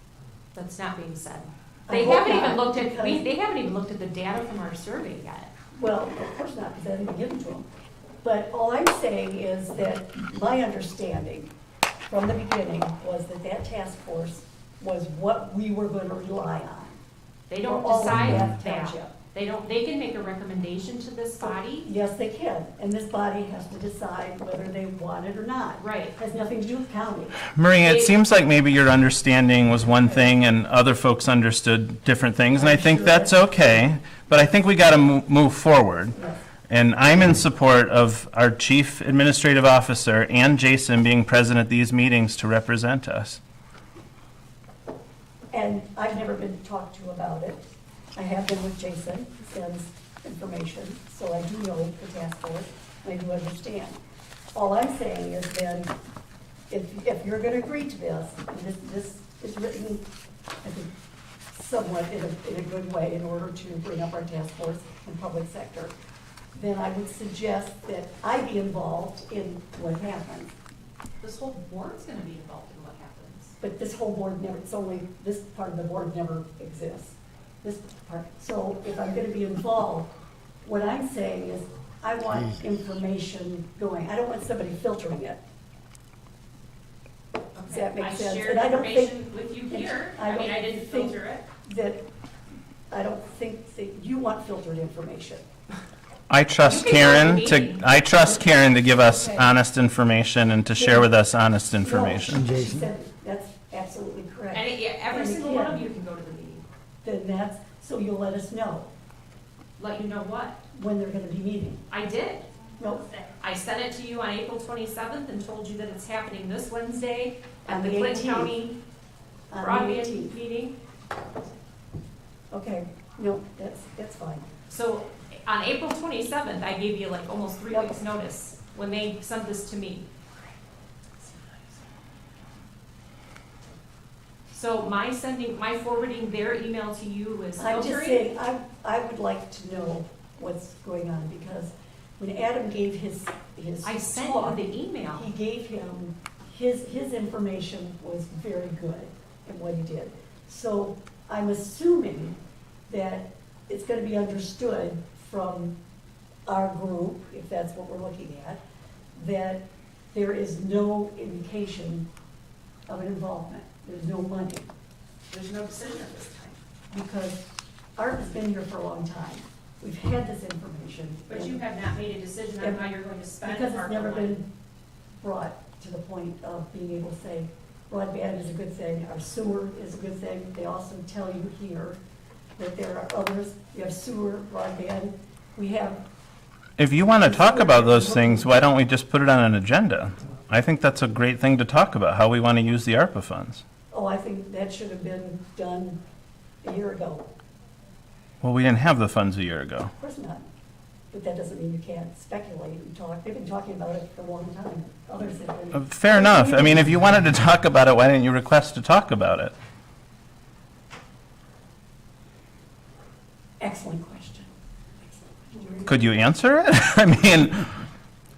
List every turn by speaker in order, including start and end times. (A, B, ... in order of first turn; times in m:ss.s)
0:00.6-0:05.5 A
0:01.9-0:03.2 B
0:05.7-0:07.7 B
0:08.2-0:11.5 B
0:12.1-0:17.0 B
0:17.5-0:21.9 A
0:17.6-0:19.1 B
0:21.4-0:27.4 B
0:25.8-0:26.2 A
0:27.5-0:36.2 C
0:27.8-0:28.1 A
0:32.5-0:33.9 B
0:36.2-0:36.4 B
0:36.7-0:43.4 C
0:45.5-0:47.6 B
0:48.2-0:54.0 B
0:54.5-0:55.9 B
0:56.7-1:00.0 B
1:00.6-1:00.9 B
1:01.5-1:05.9 B
1:06.5-1:10.5 B
1:11.2-1:13.6 A
1:13.6-1:20.1 B
1:20.6-1:25.4 B
1:27.6-1:31.5 A
1:27.7-1:32.1 B
1:32.9-1:35.5 B
1:36.3-1:42.5 C
1:36.6-1:37.9 A
1:39.0-1:39.5 B
1:40.7-1:41.1 B
1:41.8-1:45.8 B
1:44.5-1:46.6 A
1:47.0-1:48.9 B
1:49.8-1:50.6 A
1:50.7-1:51.8 B
1:51.9-1:52.5 A
1:52.8-1:53.0 B
1:53.2-1:58.8 A
1:57.7-1:58.6 B
1:59.5-2:00.4 B
1:59.5-2:00.8 A
2:02.5-2:04.5 B
2:04.7-2:10.1 A
2:14.5-2:18.2 A
2:17.6-2:32.4 B
2:23.8-2:25.3 A
2:32.9-2:35.8 B
2:36.5-2:38.6 B
2:39.2-2:42.1 B
2:42.9-2:44.7 B
2:45.3-2:46.6 A
2:46.9-2:51.6 B
2:51.3-2:54.4 A
2:53.4-2:54.5 B
2:55.2-3:02.0 B
3:02.6-3:06.0 B
3:06.8-3:13.6 C
3:07.2-3:08.5 B
3:13.9-3:16.0 B
3:16.6-3:17.3 B
3:18.4-3:19.9 C
3:20.0-3:20.4 B
3:21.1-3:26.9 B
3:25.7-3:29.5 C
3:33.6-3:34.5 B
3:35.0-3:36.0 B
3:35.9-3:37.8 C